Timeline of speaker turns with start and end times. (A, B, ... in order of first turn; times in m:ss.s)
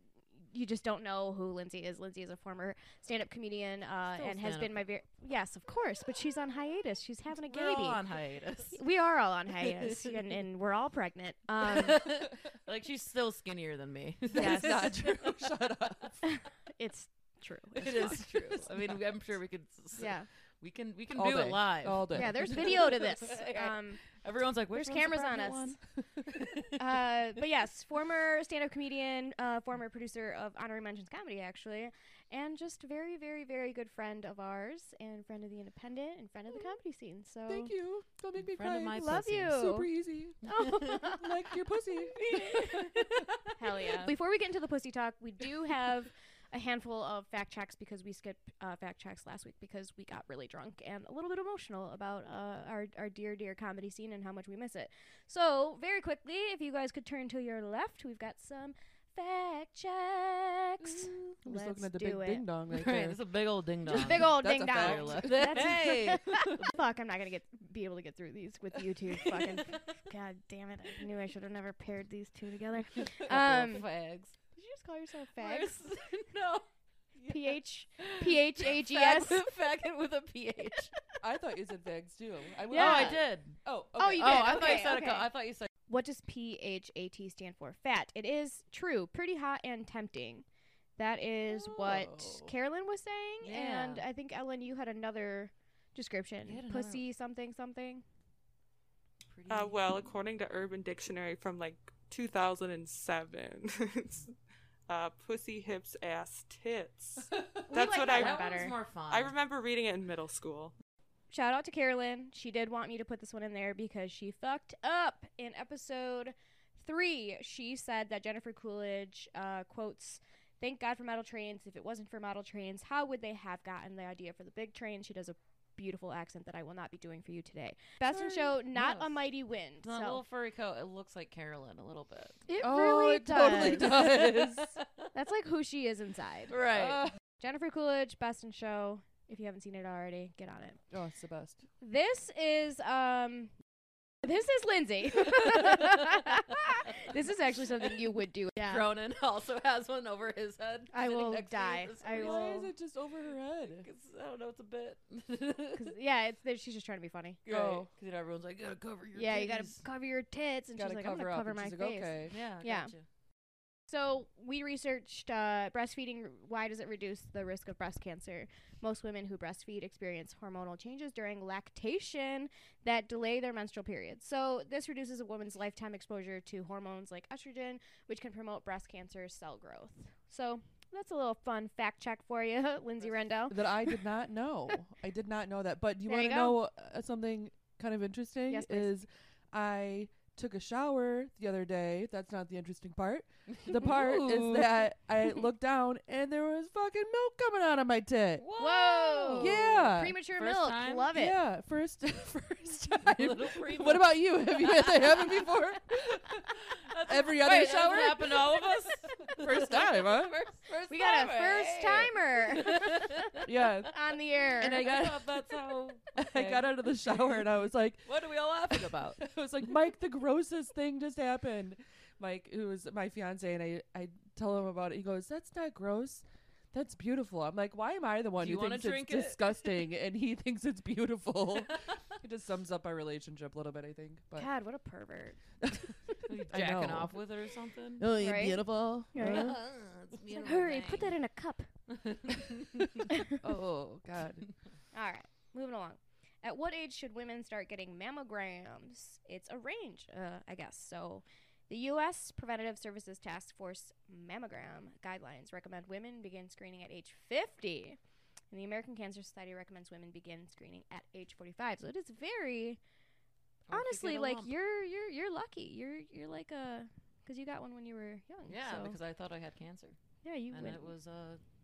0:00.5-0:08.0 A
0:04.1-0:04.8 B
0:07.5-0:08.8 B
0:08.7-0:12.1 A
0:09.6-0:10.2 B
0:11.6-0:15.5 B
0:14.3-0:16.2 C
0:14.4-0:15.0 A
0:16.2-0:18.8 A
0:17.8-0:26.8 B
0:20.0-0:20.3 A
0:21.1-0:22.7 C
0:22.1-0:24.0 A
0:24.7-0:25.8 A
0:26.8-0:37.7 A
0:37.5-0:42.2 C
0:38.4-0:39.7 B
0:38.9-0:39.9 A
0:40.4-0:41.4 A
0:40.6-0:41.1 B
0:42.1-0:44.1 B
0:42.3-0:42.9 A
0:43.6-1:02.4 A
1:00.8-1:03.2 C
1:02.7-1:06.7 B
1:03.9-1:13.9 A
1:03.9-1:05.6 C
1:06.3-1:06.6 C
1:09.1-1:10.0 B
1:13.0-1:14.4 B
1:14.6-1:15.8 A
1:15.4-1:16.7 B
1:17.2-1:19.4 A
1:18.0-1:20.9 B
1:21.2-1:24.8 C
1:22.7-1:23.2 A
1:22.7-1:23.6 B
1:24.0-1:25.2 A
1:24.1-1:25.7 B
1:25.9-1:30.4 A
1:31.0-1:38.0 A
1:31.5-1:32.5 C
1:33.4-1:34.0 B
1:36.4-1:37.0 B
1:39.3-1:40.1 B
1:39.5-1:44.3 D
1:44.9-1:48.5 D
1:47.7-1:48.8 A
1:47.9-1:49.3 B
1:49.1-1:50.7 D
1:51.3-2:10.2 A
2:08.7-2:09.2 B
2:09.8-2:12.4 B
2:12.5-2:14.1 A
2:12.6-2:14.8 C
2:13.4-2:15.1 B
2:15.1-2:16.6 A
2:16.5-2:17.1 B
2:16.7-2:17.1 C
2:17.4-2:20.8 A
2:20.9-2:21.6 C
2:21.8-2:23.5 A
2:24.2-2:28.9 A
2:28.6-2:32.7 B
2:30.9-2:32.6 A
2:32.1-2:33.9 C
2:33.8-2:35.9 B
2:35.8-2:37.4 A
2:37.4-2:39.8 B
2:37.5-2:37.9 C
2:39.1-2:42.9 A
2:40.8-2:42.4 C
2:42.3-2:43.0 B
2:43.9-3:04.0 A
3:03.5-3:18.4 C
3:06.1-3:06.6 A
3:08.5-3:08.9 A
3:13.5-3:14.9 B
3:18.4-3:19.7 B
3:18.6-3:21.4 A
3:19.4-3:20.2 C
3:20.4-3:21.2 B
3:21.1-3:28.6 C
3:23.0-3:25.5 B
3:26.6-3:33.5 B
3:29.4-3:30.4 C
3:30.9-3:34.8 A
3:33.4-3:34.0 C
3:34.5-3:37.5 B
3:34.6-3:35.5 C
3:36.1-3:38.1 C
3:38.0-3:39.2 B
3:38.7-3:54.5 C
3:48.4-3:49.8 B
3:51.7-3:52.0 B
3:54.4-3:55.4 A
3:55.6-3:57.2 C
3:56.3-3:58.1 B
3:58.0-3:59.6 C
3:58.2-3:59.6 A
3:59.2-4:01.1 B
4:00.2-4:01.7 A
4:01.9-4:03.0 B
4:03.1-4:03.4 A
4:03.4-4:04.5 C
4:04.9-4:18.0 A
4:18.5-4:22.8 A
4:23.7-4:24.5 B
4:23.7-4:29.0 A
4:28.5-4:30.0 B
4:30.2-4:30.9 A
4:30.5-4:31.4 B